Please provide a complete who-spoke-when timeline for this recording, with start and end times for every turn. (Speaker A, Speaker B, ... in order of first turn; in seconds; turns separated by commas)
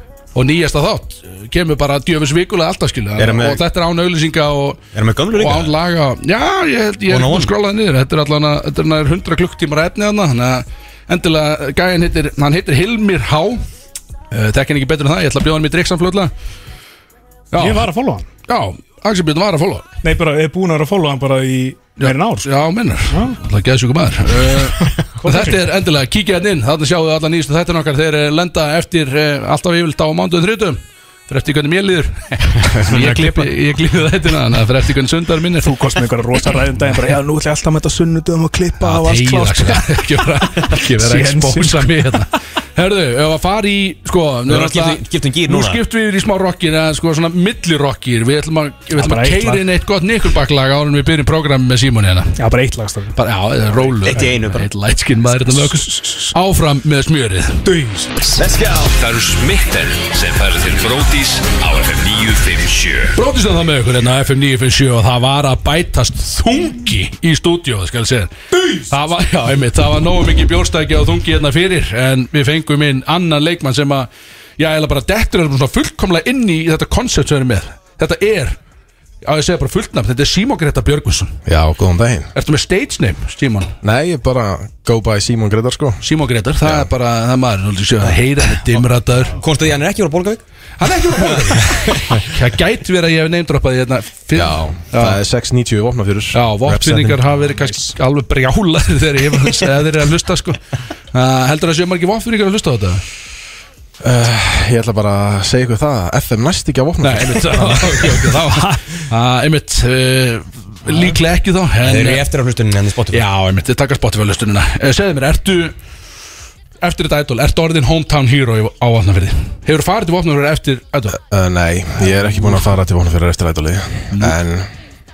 Speaker A: 0.3-13.6, Speaker B: 3.2-3.6, Speaker B: 4.9-5.7, Speaker B: 7.1-7.5, Speaker A: 14.3-16.3, Speaker A: 17.5-17.9, Speaker C: 17.6-18.3, Speaker A: 18.5-19.9, Speaker C: 20.0-22.5, Speaker A: 22.0-35.9, Speaker C: 23.1-23.4, Speaker C: 24.9-25.6, Speaker C: 32.9-33.5, Speaker C: 35.6-40.1, Speaker A: 38.8-52.4, Speaker C: 40.7-42.1, Speaker B: 44.5-45.8, Speaker C: 49.0-49.7, Speaker C: 52.4-53.2, Speaker A: 53.1-57.7, Speaker B: 54.0-54.7, Speaker C: 55.5-56.3, Speaker C: 57.6-58.3, Speaker B: 58.4-58.9, Speaker D: 58.6-63.1, Speaker A: 63.1-78.6, Speaker C: 68.5-68.9, Speaker A: 79.2-81.4, Speaker E: 81.5-82.3, Speaker A: 82.3-83.8, Speaker E: 83.8-86.0, Speaker A: 86.0-89.4, Speaker E: 86.6-86.9, Speaker B: 89.3-90.4, Speaker A: 90.8-95.2, Speaker B: 91.3-92.3, Speaker E: 94.3-97.1, Speaker A: 96.3-100.6, Speaker C: 97.6-97.9, Speaker A: 101.1-103.0, Speaker E: 104.0-107.9, Speaker A: 107.0-112.2, Speaker C: 108.5-109.0, Speaker B: 111.8-113.2, Speaker A: 113.1-115.8, Speaker A: 116.8-121.2, Speaker E: 121.1-124.7, Speaker A: 122.3-122.6